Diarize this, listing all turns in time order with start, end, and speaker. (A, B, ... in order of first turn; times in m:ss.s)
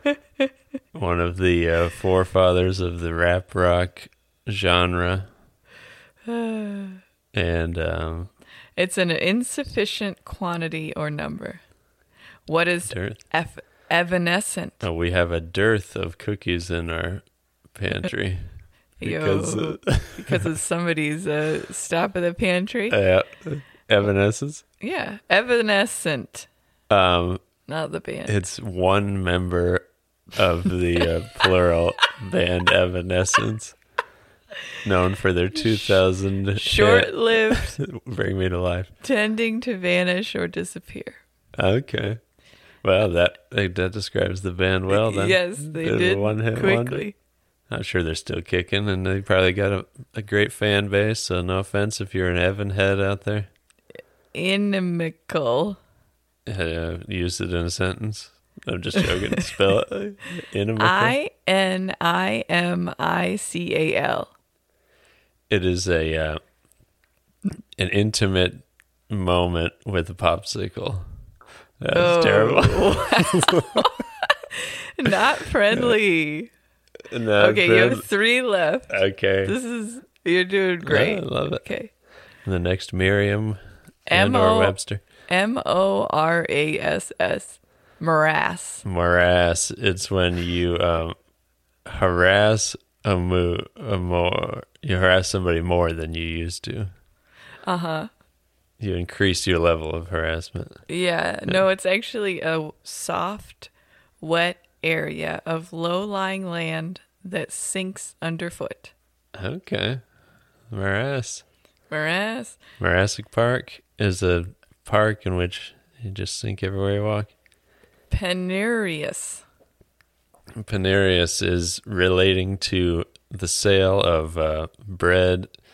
0:00.9-0:05.3 A
0:06.3-0:07.0 B
0:07.3-0:08.3 A
0:08.8-0:11.6 B
0:12.5-0:14.8 B
0:12.9-0:13.2 A
0:14.8-0:18.5 A
0:19.0-0:23.0 B
0:19.0-0:20.5 A
0:22.9-0:24.6 A
0:24.8-0:26.5 B
0:26.9-0:27.4 A
0:27.7-0:28.4 B
0:28.3-0:33.8 A
0:34.8-0:38.9 A
0:35.6-0:36.0 B
0:36.5-0:37.8 B
0:39.0-0:41.2 B
0:41.6-0:42.2 A
0:42.8-0:47.0 A
0:44.9-0:47.2 B
0:47.7-0:53.5 A
0:54.3-0:55.8 B
0:56.5-1:01.2 A
1:00.8-1:04.3 B
1:05.5-1:06.4 A
1:07.8-1:11.0 A
1:11.8-1:13.9 A
1:11.9-1:16.5 B
1:17.1-1:18.1 A
1:17.4-1:21.9 B
1:18.9-1:19.6 A
1:20.8-1:21.7 A
1:22.4-1:23.6 A
1:24.1-1:24.8 B
1:24.1-1:25.0 A
1:25.3-1:28.8 B
1:28.8-1:31.2 A
1:31.9-1:36.9 A
1:37.6-1:38.1 B
1:38.8-1:40.8 A
1:40.9-1:48.9 B
1:49.4-1:50.0 A
1:50.7-1:51.4 A
1:51.9-1:52.6 B
1:52.8-1:57.3 A
1:58.1-1:59.4 B
2:00.6-2:05.5 A